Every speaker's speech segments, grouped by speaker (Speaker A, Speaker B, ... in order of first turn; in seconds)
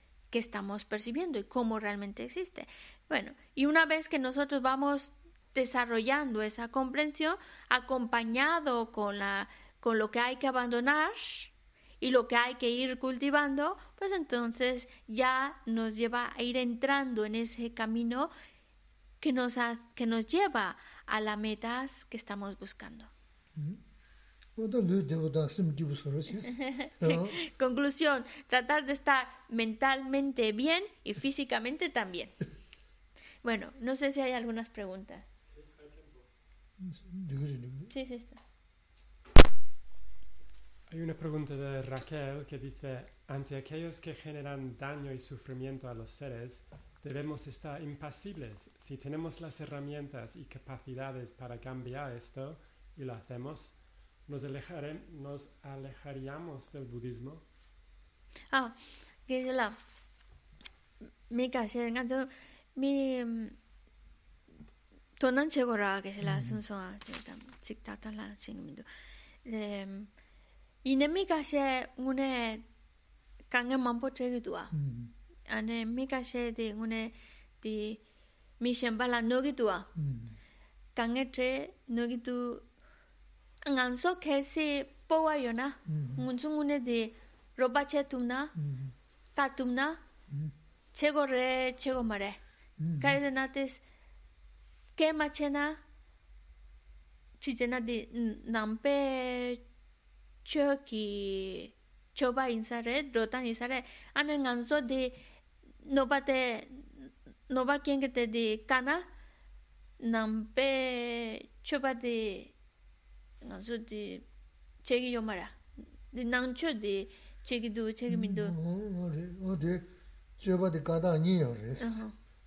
Speaker A: 0.3-18.3, 19.2-23.1, 26.6-32.4, 33.4-35.3, 37.9-38.4, 59.3-59.8, 61.3-63.6, 65.2-68.8, 69.5-70.1, 70.8-72.7, 73.5-74.7, 75.5-78.0, 78.6-79.9, 81.0-82.7, 83.6-88.5, 89.3-90.0, 90.9-92.4, 93.0-93.8, 95.0-95.8, 97.4-99.6, 100.5-105.2, 105.9-106.9, 107.5-109.1, 110.0-112.5, 113.4-114.2, 114.8-115.6, 116.1-118.5, 121.8-122.1
Speaker B: 23.6-23.8, 24.6-27.4, 36.8-37.9, 66.2-66.6, 74.7-75.1, 80.0-80.4, 85.9-86.2, 88.6-89.0, 90.3-90.5, 92.8-93.2, 118.1-122.0
Speaker C: 35.5-36.3, 40.9-57.4